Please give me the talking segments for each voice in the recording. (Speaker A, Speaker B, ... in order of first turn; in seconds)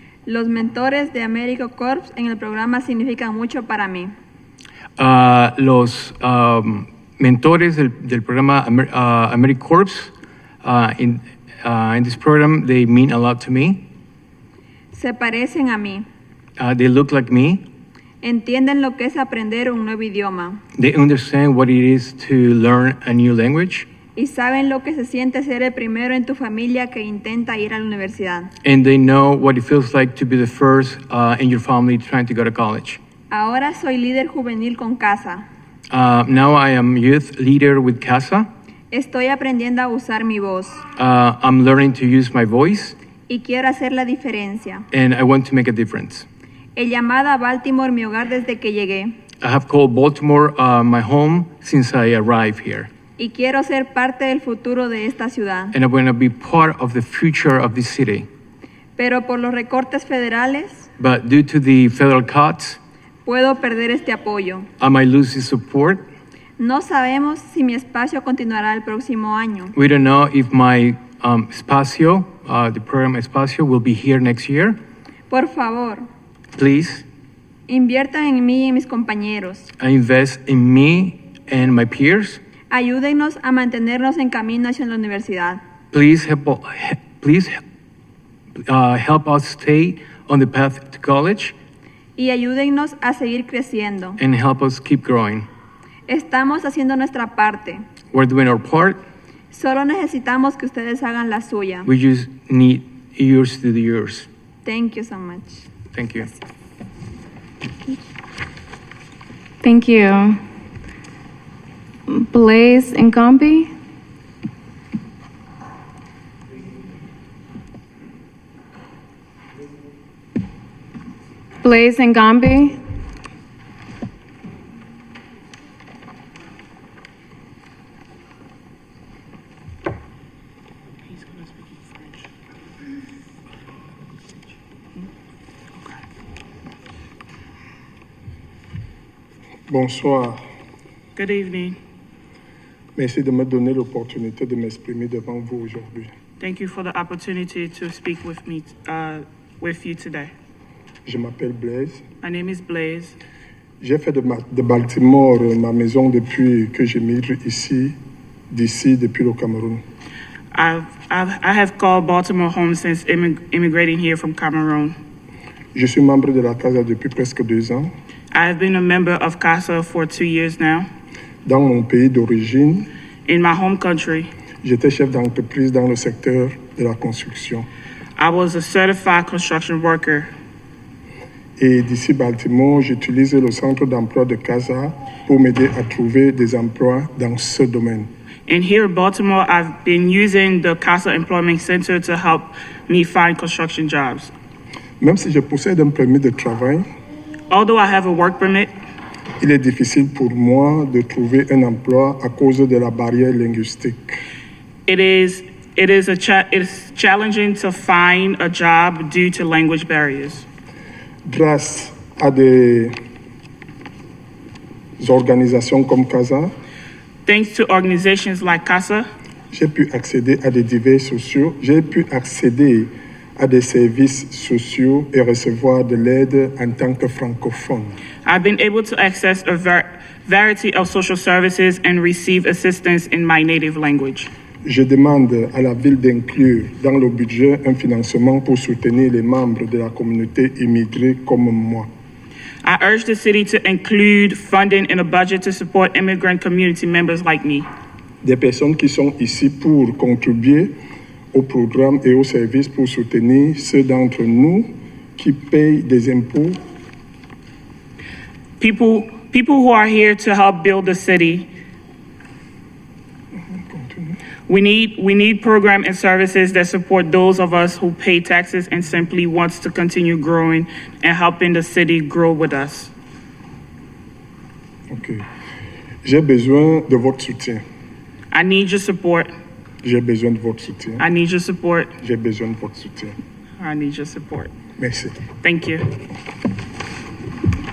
Speaker A: 0.2-4.1, 14.9-16.1, 18.2-20.6, 24.1-28.5, 33.3-35.5, 38.9-40.8, 43.3-44.9, 46.8-49.2, 53.2-55.7, 59.0-60.9, 63.2-64.7, 66.6-69.8, 75.3-76.0, 77.7-79.7, 82.7-85.6, 92.2-94.2, 96.1-97.8, 99.5-101.9, 104.6-105.7
Speaker B: 5.0-10.1, 10.6-13.8, 16.6-17.6, 20.8-23.9, 28.6-33.0, 35.9-38.5, 41.0-43.0, 44.9-46.3, 49.4-52.9, 55.7-58.3, 61.0-62.8, 64.8-66.0, 69.7-74.8, 76.5-77.0, 79.8-82.4, 85.9-87.6, 88.6-91.5, 94.2-95.5, 98.1-99.0, 101.8-104.3, 105.9-106.3
Speaker C: 109.6-110.4, 112.1-113.7, 121.6-122.8
Speaker D: 131.1-132.2, 141.2-141.8, 146.4-150.3, 152.2-153.2, 160.5-164.9, 168.3-170.9, 173.2-174.3, 178.2-180.3, 188.5-194.3, 197.5-198.7, 204.9-210.4, 217.2-219.1, 228.2-234.3, 242.6-247.7, 258.6-261.5, 264.5-272.9, 278.3-279.3, 281.0-281.9, 283.6-284.5, 285.4-285.9
Speaker E: 139.7-140.4, 142.9-146.1, 151.1-152.0, 153.8-158.0, 158.5-159.8, 165.7-167.9, 171.4-172.9, 174.6-177.7, 181.6-188.1, 195.0-196.8, 199.4-204.2, 211.2-212.9, 215.0-216.5, 219.5-228.0, 234.6-241.9, 248.2-250.7, 251.3-256.6, 263.4-264.2, 274.9-275.2, 276.0-277.6, 279.8-281.0, 282.0-283.1, 284.8-285.2